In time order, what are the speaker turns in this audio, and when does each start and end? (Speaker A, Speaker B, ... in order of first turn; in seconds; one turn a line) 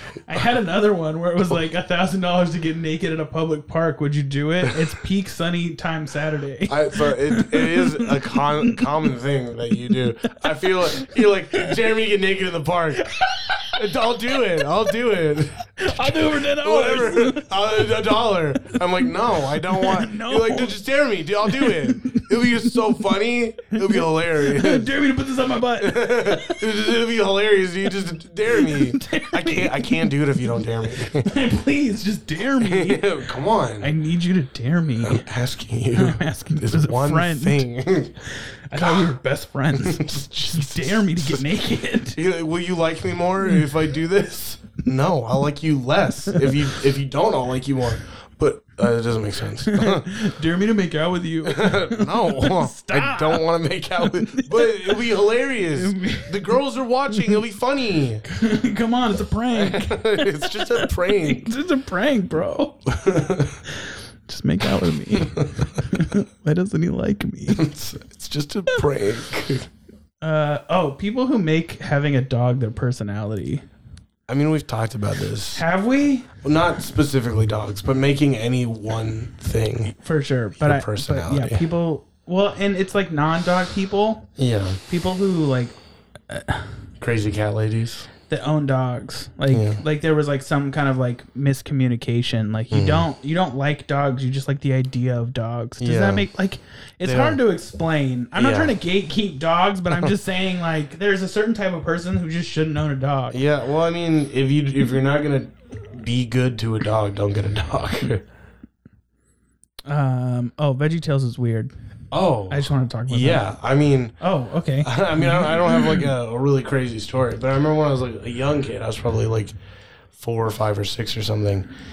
Speaker A: 0.3-8.9
Speaker B: 6.7-24.9
Speaker A: 10.3-11.7
Speaker A: 13.0-13.8
Speaker A: 15.8-18.0
Speaker A: 19.6-20.8
Speaker A: 21.4-22.8
Speaker A: 23.7-26.7
Speaker B: 25.8-31.3
Speaker A: 28.5-30.1
Speaker A: 31.1-33.0
Speaker B: 32.6-33.9
Speaker A: 33.8-35.3
Speaker B: 35.0-38.2
Speaker A: 35.9-37.7
Speaker A: 38.3-42.2
Speaker B: 38.8-39.1
Speaker B: 39.7-41.5
Speaker B: 42.1-50.1
Speaker A: 49.7-53.5
Speaker B: 51.4-58.2
Speaker A: 54.0-55.0
Speaker A: 55.7-56.6
Speaker A: 58.3-62.9
Speaker B: 59.5-61.5
Speaker B: 62.9-63.6
Speaker A: 63.7-67.7
Speaker B: 65.1-65.7
Speaker B: 67.5-69.7
Speaker A: 70.2-73.6
Speaker B: 74.3-75.6
Speaker A: 75.5-76.3
Speaker B: 76.4-80.0
Speaker A: 80.0-84.3
Speaker B: 80.6-81.7
Speaker B: 84.4-84.8
Speaker A: 84.9-85.8
Speaker A: 86.3-86.7
Speaker B: 87.0-88.1
Speaker A: 88.3-103.4
Speaker B: 89.5-89.8
Speaker B: 92.7-93.1
Speaker B: 95.8-96.3
Speaker B: 97.0-97.4
Speaker B: 98.3-98.8
Speaker B: 103.3-108.2
Speaker A: 109.9-111.7
Speaker B: 112.1-114.2
Speaker A: 112.5-113.5
Speaker A: 114.2-116.0
Speaker B: 114.8-119.5
Speaker B: 120.2-121.7